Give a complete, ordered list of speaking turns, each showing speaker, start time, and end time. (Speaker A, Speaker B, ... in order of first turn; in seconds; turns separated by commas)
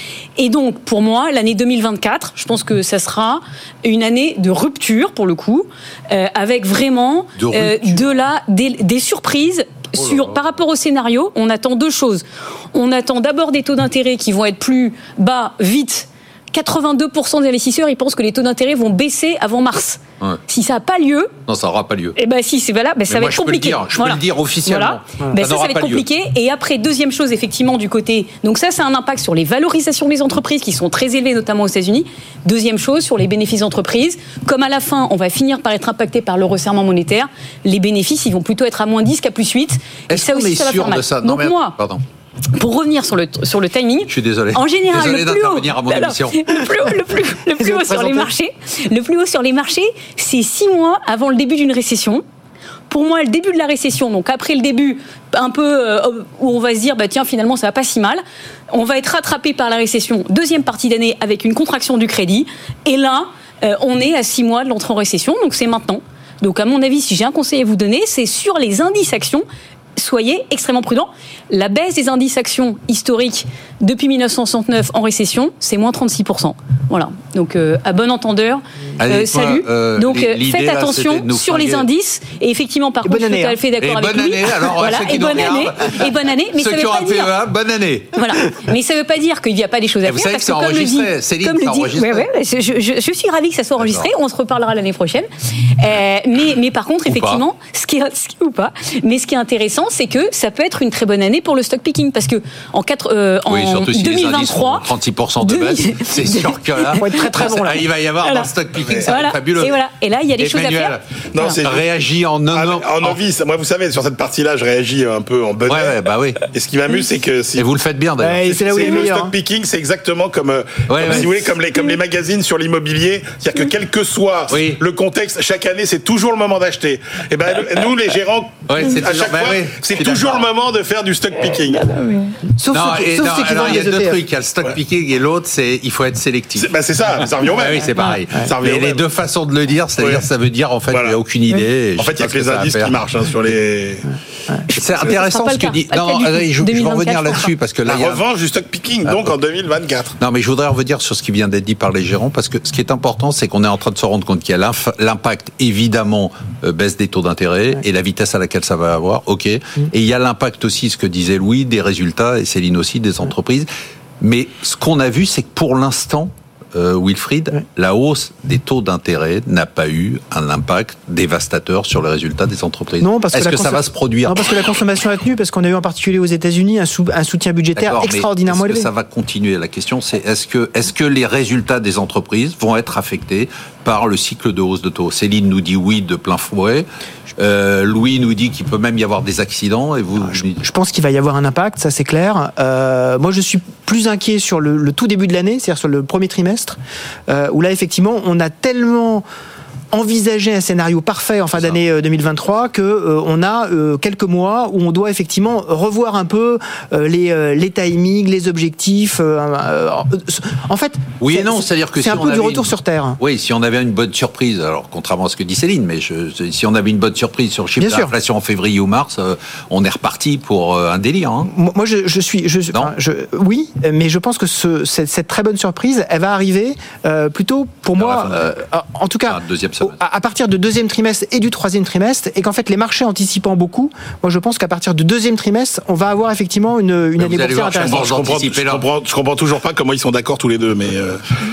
Speaker A: 0.4-21.4, Speaker B: 7.4-8.0, Speaker B: 21.4-22.1, Speaker A: 22.1-41.8, Speaker B: 23.1-26.0, Speaker B: 40.1-42.0, Speaker A: 42.5-52.2, Speaker B: 44.1-46.4, Speaker C: 47.6-48.3, Speaker A: 52.9-69.4, Speaker A: 70.0-87.3, Speaker B: 79.0-81.9, Speaker C: 83.0-83.6, Speaker B: 83.8-88.2, Speaker A: 88.2-95.3, Speaker B: 90.0-92.3, Speaker B: 93.8-94.1, Speaker A: 95.8-107.2, Speaker B: 97.1-97.4, Speaker B: 103.5-109.8, Speaker C: 107.0-107.8, Speaker A: 108.2-108.5, Speaker D: 108.8-109.1, Speaker A: 109.0-111.0, Speaker B: 110.4-113.2, Speaker D: 111.3-111.9, Speaker D: 112.5-116.0, Speaker B: 115.7-116.4, Speaker D: 116.5-117.7, Speaker B: 117.5-118.4, Speaker C: 118.2-119.3, Speaker D: 118.4-131.9, Speaker B: 120.9-121.5, Speaker B: 124.5-124.8, Speaker B: 128.7-130.5, Speaker C: 131.9-134.2, Speaker B: 132.7-143.0, Speaker D: 136.5-139.0, Speaker D: 140.0-140.3, Speaker D: 140.9-141.2, Speaker D: 142.0-144.1, Speaker B: 144.7-148.2, Speaker A: 145.1-147.5, Speaker D: 147.8-150.2, Speaker B: 149.0-149.3, Speaker B: 150.2-163.7, Speaker B: 164.2-174.5, Speaker C: 173.0-178.9, Speaker B: 177.8-190.6, Speaker C: 190.3-196.8, Speaker C: 197.3-199.2, Speaker C: 199.9-213.2, Speaker B: 211.2-221.5, Speaker C: 217.8-218.1, Speaker C: 221.4-238.0, Speaker B: 228.0-228.4, Speaker B: 229.3-230.0, Speaker B: 237.2-238.8, Speaker D: 237.8-241.2